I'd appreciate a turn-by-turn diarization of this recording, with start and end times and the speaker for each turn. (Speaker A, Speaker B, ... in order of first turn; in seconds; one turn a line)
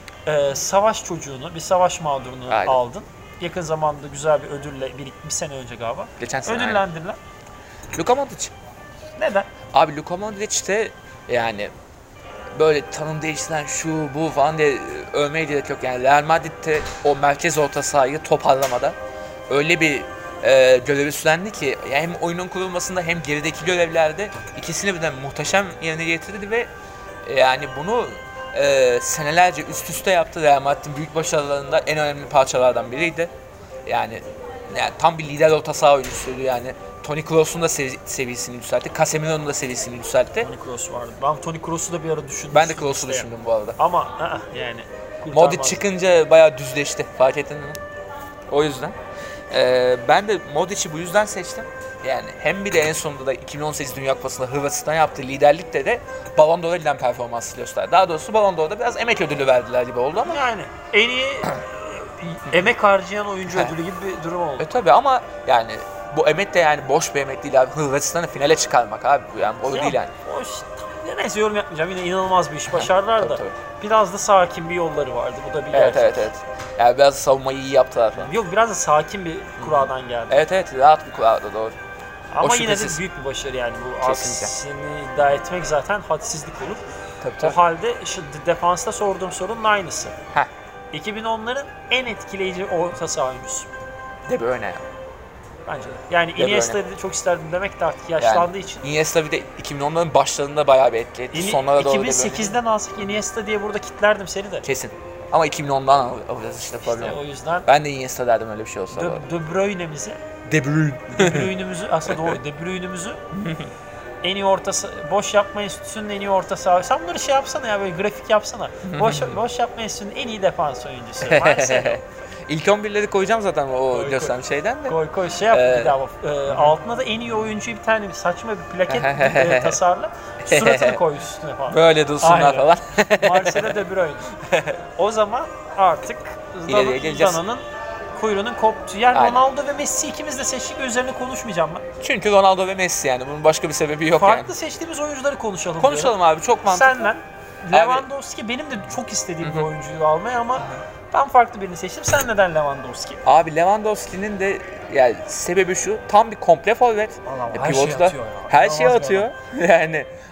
Speaker A: 0.2-7.2
Speaker B: 2.5-2.8
Speaker B: 6.2-6.8
Speaker B: 7.9-8.5
Speaker A: 9.2-9.5
Speaker B: 9.7-11.7
Speaker B: 12.5-18.9
Speaker B: 19.5-26.7
Speaker B: 27.2-33.3
Speaker B: 33.9-40.5
Speaker A: 40.4-45.8
Speaker B: 42.5-43.8
Speaker B: 45.3-47.8
Speaker B: 48.5-49.0
Speaker B: 49.5-60.4
Speaker A: 60.2-64.7
Speaker B: 64.6-70.1
Speaker A: 69.7-76.3
Speaker B: 72.7-73.6
Speaker B: 75.7-78.3
Speaker A: 78.2-80.4
Speaker B: 79.6-81.8
Speaker A: 82.3-86.8
Speaker B: 82.4-83.0
Speaker B: 84.0-84.5
Speaker B: 87.2-87.6
Speaker A: 87.4-90.2
Speaker A: 90.9-93.7
Speaker B: 94.3-94.8
Speaker A: 95.7-98.8
Speaker B: 96.4-96.8
Speaker B: 98.2-102.5
Speaker A: 101.3-104.7
Speaker B: 104.6-109.2
Speaker A: 106.8-107.7
Speaker A: 108.9-110.2
Speaker B: 110.5-111.5
Speaker A: 111.1-113.2
Speaker B: 112.1-112.4
Speaker B: 113.3-113.7
Speaker A: 114.2-122.0
Speaker B: 118.8-119.4
Speaker B: 121.2-125.0
Speaker A: 123.9-134.4
Speaker B: 125.5-126.0
Speaker B: 128.9-129.8
Speaker B: 130.4-131.0
Speaker B: 131.7-133.8
Speaker B: 134.4-134.8
Speaker A: 134.9-141.8
Speaker B: 136.7-137.4
Speaker B: 139.1-139.4
Speaker B: 142.0-144.5
Speaker A: 144.1-153.2
Speaker B: 145.8-147.1
Speaker B: 147.7-148.1
Speaker B: 149.4-149.7
Speaker B: 153.2-160.1
Speaker A: 157.2-159.3